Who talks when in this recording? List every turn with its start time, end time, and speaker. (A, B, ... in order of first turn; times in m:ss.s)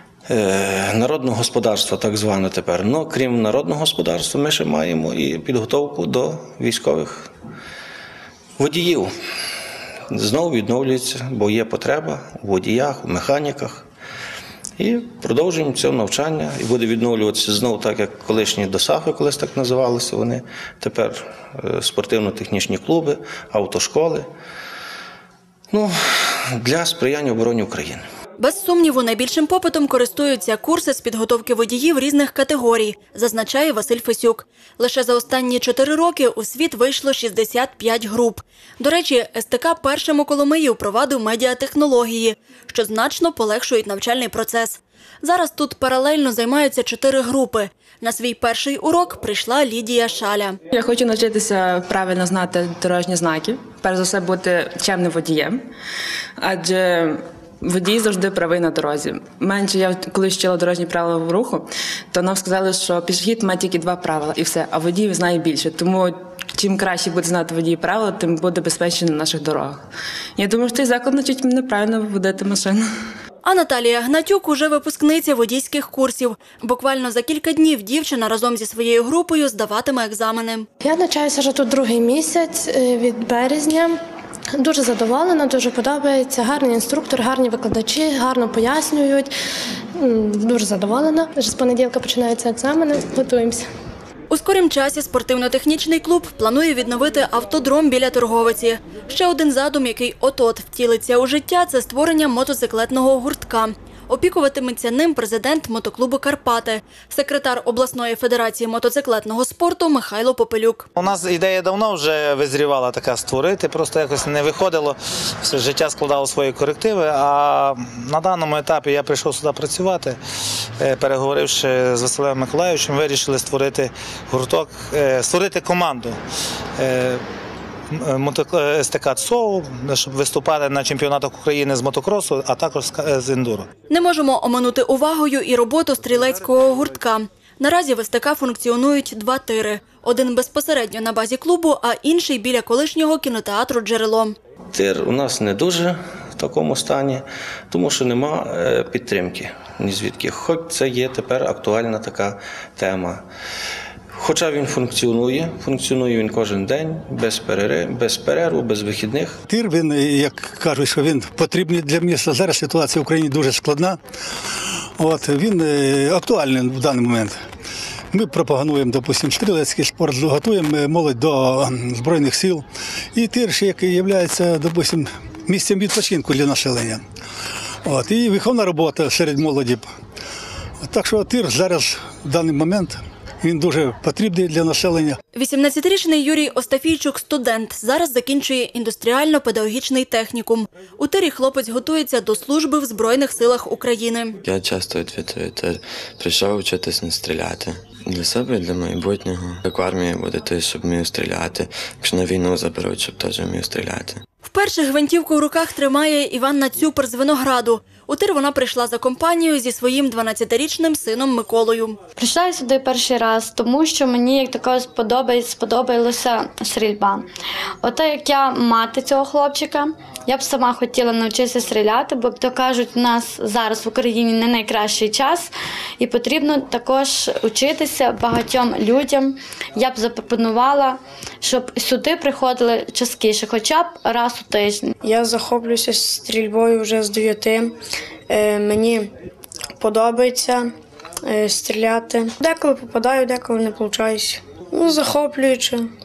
0:00.3-0:07.2 A
0:08.6-0:09.1 A
0:10.1-0:13.8 A
0:14.8-0:24.2 A
0:26.6-0:28.0 A
0:28.4-0:50.6 B
0:50.7-0:55.6 C
0:56.4-1:09.8 C
1:10.4-1:12.8 C
1:13.4-1:20.7 B
1:20.8-1:24.0 D
1:24.6-1:29.3 D
1:30.0-1:33.6 D
1:34.3-1:50.9 B
1:51.0-2:00.2 E
2:00.8-2:06.2 E
2:06.8-2:07.2 E
2:07.9-2:13.7 E
2:13.9-2:24.4 B
2:24.8-2:33.2 A
2:34.2-2:39.4 A
2:39.5-2:44.0 F
2:45.0-2:47.4 F
2:48.1-2:52.6 F
2:53.2-2:57.0 F
2:57.8-2:59.9 F
3:00.8-3:05.2 F
3:05.4-3:14.4 B
3:14.4-3:24.2 G
3:24.4-3:32.0 B
3:32.2-3:37.3 H
3:37.8-3:54.9 H
3:55.0-3:57.7 I
3:58.3-3:59.1 I
3:59.8-4:00.7 I
4:01.3-4:05.9 I